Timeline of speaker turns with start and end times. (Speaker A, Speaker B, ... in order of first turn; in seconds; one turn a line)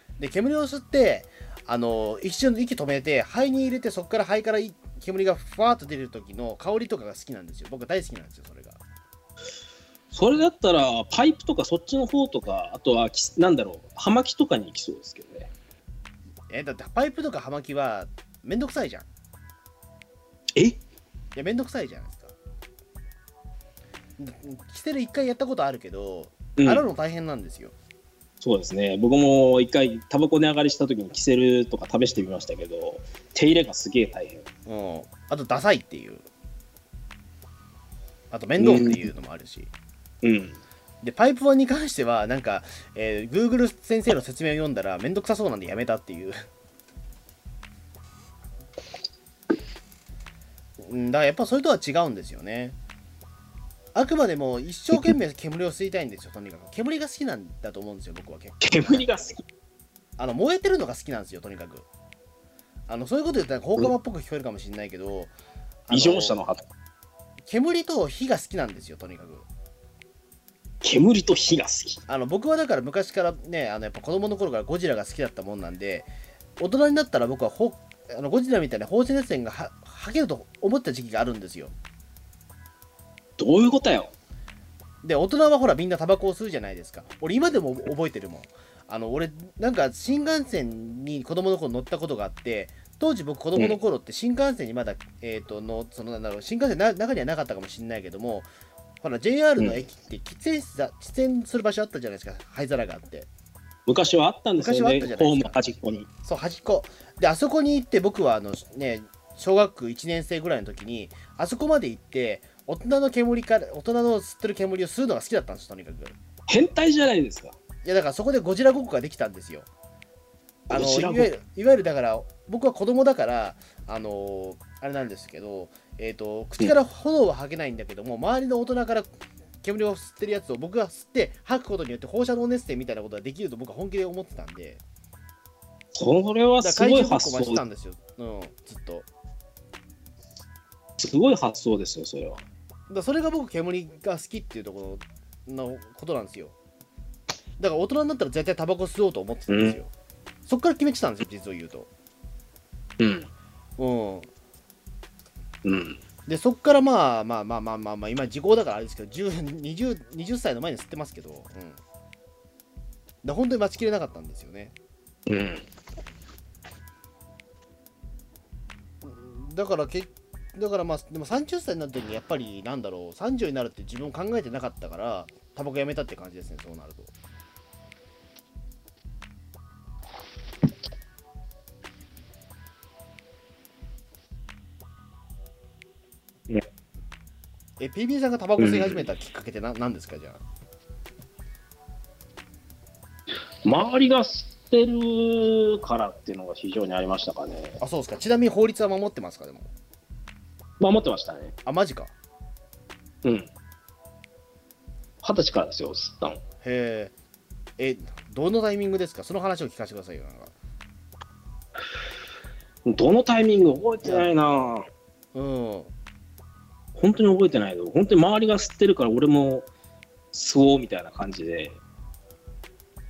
Speaker A: 0.2-8.8
Speaker B: 10.1-15.5
Speaker A: 16.5-19.1
Speaker A: 21.3-22.3
Speaker A: 24.2-27.7
Speaker B: 26.6-26.8
Speaker B: 28.4-34.5
Speaker A: 34.6-36.2
Speaker A: 38.3-39.7
Speaker B: 38.6-39.0
Speaker B: 40.2-40.6
Speaker A: 41.0-46.4
Speaker A: 50.8-52.8
Speaker A: 53.9-59.3
Speaker B: 58.6-59.4
Speaker A: 60.2-61.9
Speaker A: 62.9-65.3
Speaker A: 65.9-66.4
Speaker B: 65.9-66.6
Speaker A: 67.5-69.5
Speaker B: 70.8-72.0
Speaker A: 72.1-81.7
Speaker B: 83.4-84.1
Speaker A: 85.0-98.5
Speaker A: 99.0-103.3
Speaker B: 103.9-106.1
Speaker A: 104.6-105.6
Speaker A: 106.2-116.2
Speaker B: 116.5-117.5
Speaker A: 117.8-119.7
Speaker B: 120.7-121.3
Speaker A: 120.7-129.1
Speaker A: 129.6-134.8
Speaker B: 135.9-137.6
Speaker A: 136.6-139.1
Speaker B: 141.0-142.4
Speaker A: 142.9-146.5
Speaker A: 147.6-149.9
Speaker B: 149.5-149.8
Speaker A: 150.5-151.9
Speaker B: 153.0-153.3
Speaker A: 153.8-154.3
Speaker B: 155.6-156.0
Speaker A: 156.3-161.8
Speaker A: 163.2-164.7
Speaker B: 165.3-165.6
Speaker A: 169.0-177.1
Speaker A: 187.8-190.4
Speaker B: 188.6-189.0
Speaker B: 193.6-197.8
Speaker A: 197.8-199.7
Speaker B: 200.8-201.5
Speaker A: 201.6-202.1
Speaker B: 203.2-203.5
Speaker B: 205.2-206.4
Speaker A: 206.6-207.1
Speaker A: 207.8-210.5
Speaker B: 212.8-214.9
Speaker A: 214.0-214.3
Speaker A: 215.3-215.9
Speaker B: 216.9-219.7
Speaker B: 220.3-221.8